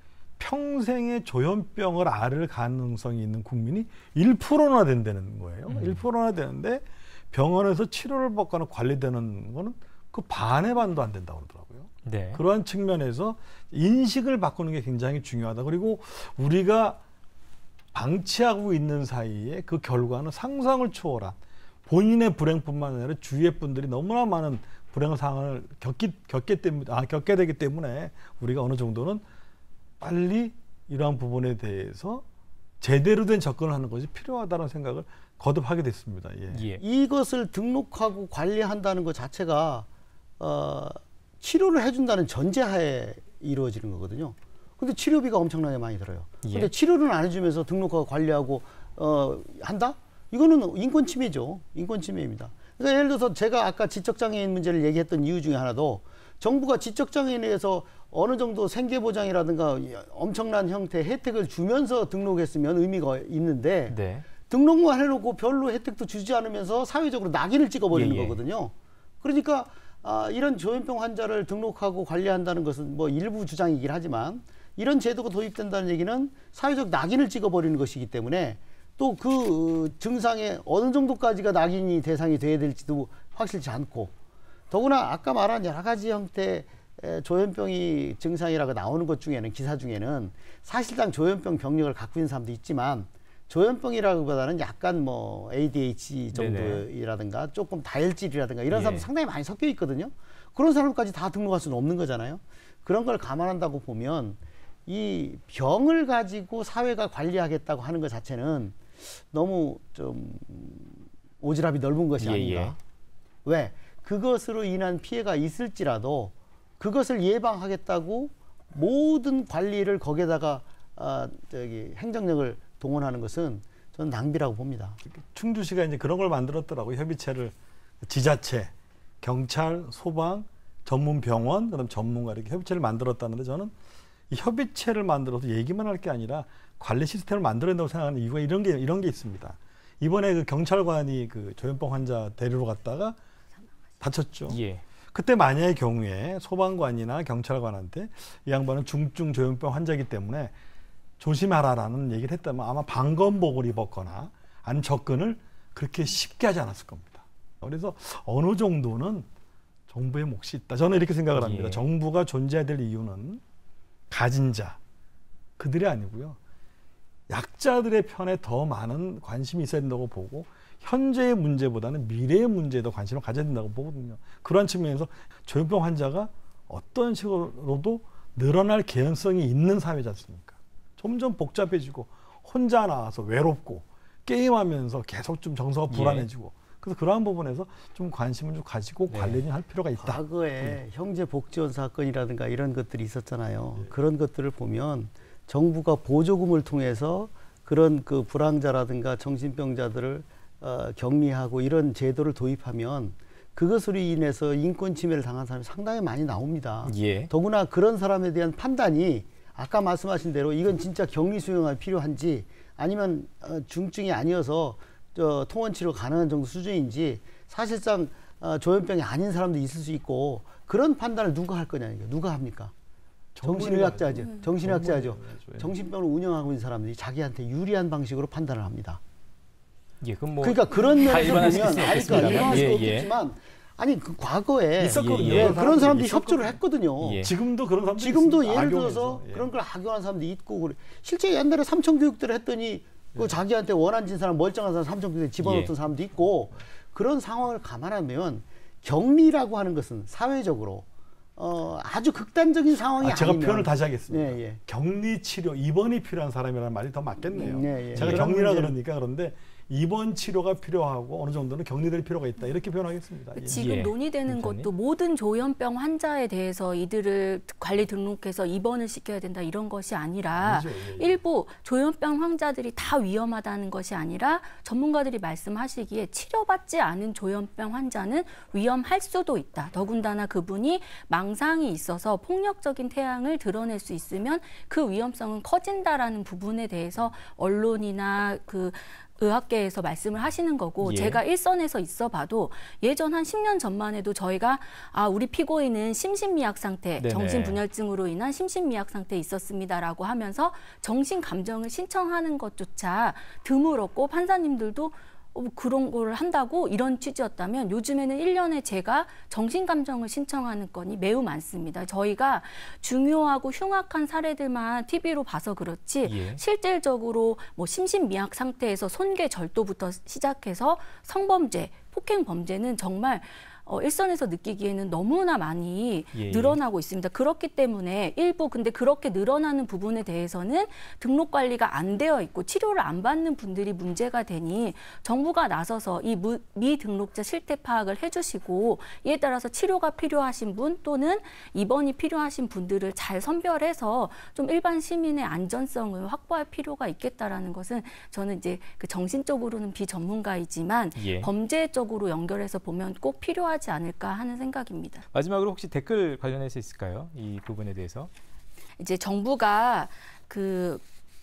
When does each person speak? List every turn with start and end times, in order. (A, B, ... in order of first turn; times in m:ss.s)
0:00.4-0:17.0 A
0:05.7-0:06.0 B
0:12.0-0:12.4 B
0:17.9-0:29.2 A
0:30.0-0:32.2 A
0:32.8-0:36.6 A
0:36.5-0:36.8 B
0:36.7-0:39.9 C
0:40.4-1:24.1 C
0:46.4-0:46.7 B
1:03.9-1:04.3 B
1:07.9-1:08.4 B
1:24.7-1:52.8 C
1:36.3-1:36.9 B
1:38.7-1:39.1 B
1:52.2-1:52.8 B
1:53.4-2:05.0 C
2:05.0-2:13.7 A
2:14.3-2:23.2 A
2:24.0-2:24.6 A
2:24.5-2:24.8 B
2:25.1-2:30.5 A
2:31.2-2:39.3 A
2:39.9-2:43.4 A
2:41.3-2:41.8 B
2:44.1-2:44.8 A
2:45.6-2:46.4 A
2:47.3-3:10.8 A
3:05.9-3:06.3 B
3:09.1-3:09.4 B
3:10.0-3:42.7 C
3:26.8-3:27.3 B
3:43.3-3:45.7 A
3:43.4-3:49.0 C
3:50.0-3:53.1 B
3:50.4-3:57.2 C
3:54.8-3:56.6 A
3:54.8-3:55.7 B
3:57.0-3:57.3 B
3:57.2-3:59.5 A
3:58.0-4:14.6 C
4:05.4-4:05.7 B
4:13.0-4:23.6 A
4:17.3-4:18.7 C
4:17.9-4:18.2 B
4:23.4-5:55.0 D
4:23.5-4:24.7 B
4:30.3-4:31.2 A
4:50.8-4:51.2 B
4:57.0-4:57.6 B
5:16.0-5:16.4 B
5:26.1-5:26.6 B
5:51.0-5:51.3 B
5:55.1-5:58.1 B
5:58.8-6:00.8 D